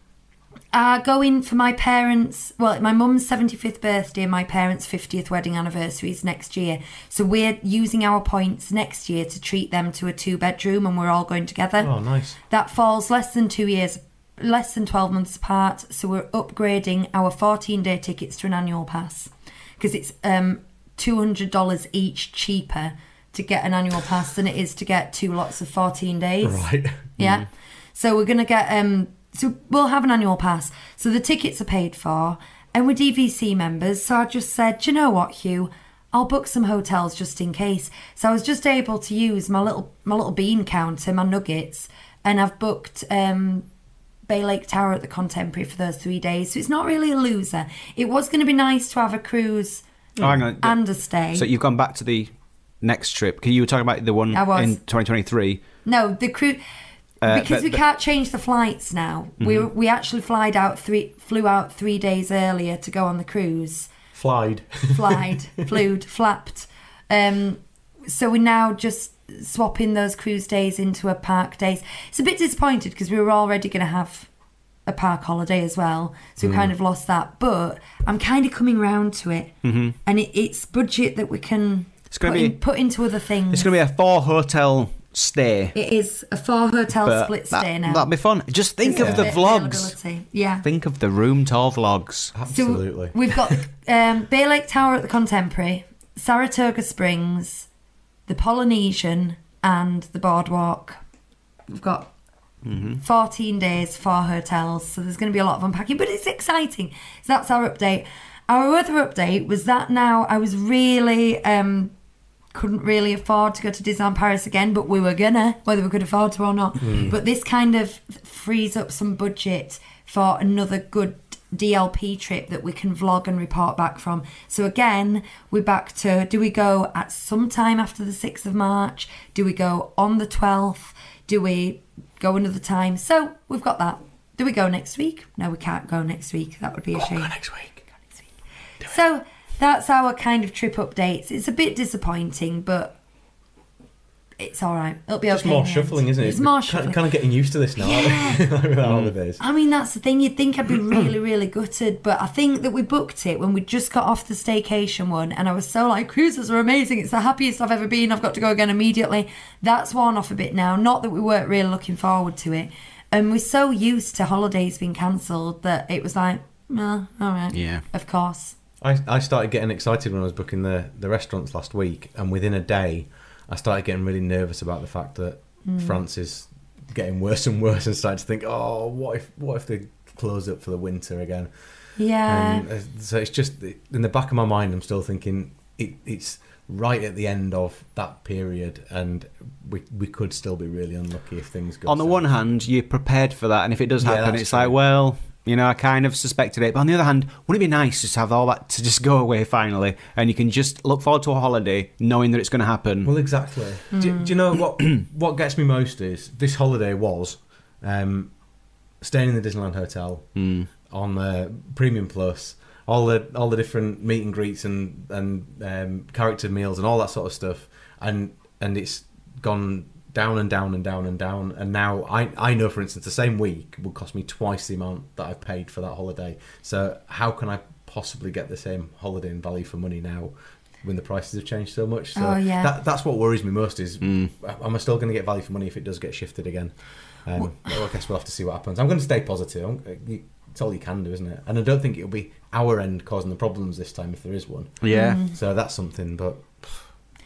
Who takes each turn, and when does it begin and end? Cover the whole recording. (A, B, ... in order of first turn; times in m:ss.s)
0:00.7-0:11.9 A
0:11.8-0:12.4 B
0:12.5-0:26.6 A
0:26.4-0:27.1 B
0:27.2-0:43.7 A
0:44.3-0:49.8 A
0:50.2-0:50.4 B
0:50.2-0:50.8 C
0:50.6-0:51.5 A
0:51.4-0:52.3 C
0:52.8-0:55.6 C
0:54.3-0:54.8 A
0:55.8-0:56.6 A
0:57.2-0:57.8 C
0:57.2-1:03.9 A
0:59.4-0:59.7 C
1:04.1-1:05.4 B
1:04.9-1:14.3 A
1:14.9-1:19.5 A
1:16.4-1:16.7 B
1:19.6-1:20.0 C
1:20.0-1:23.7 A
1:22.1-1:22.6 C
1:23.5-1:25.7 C
1:25.7-1:28.1 A
1:27.0-1:30.0 C
1:28.8-1:30.6 A
1:28.9-1:29.4 B
1:30.6-1:32.3 C
1:32.4-1:33.2 B
1:32.5-1:37.7 A
1:38.3-1:41.0 A
1:41.7-1:42.1 A
1:42.6-1:43.0 C
1:42.9-1:51.9 A
1:52.5-2:17.3 A
1:56.8-1:57.1 B
2:17.0-2:17.8 B
2:18.8-2:23.0 A
2:24.4-2:27.0 A
2:25.3-2:29.4 B
2:27.8-2:28.5 A
2:28.8-2:29.1 C
2:29.4-2:48.6 A
2:47.5-2:47.8 C
2:48.8-3:01.5 B
2:55.6-2:56.0 A
3:02.0-3:02.7 A
3:02.3-3:12.3 B
3:11.9-3:23.1 C
3:14.0-3:14.8 B
3:23.0-3:28.3 B
3:23.9-3:24.3 A
3:29.0-3:30.3 B
3:30.4-3:30.7 C
3:30.9-3:56.7 B
3:52.2-3:52.7 A
3:54.0-3:54.3 C
3:57.3-4:06.8 B
4:04.8-4:05.2 C
4:04.9-4:05.4 A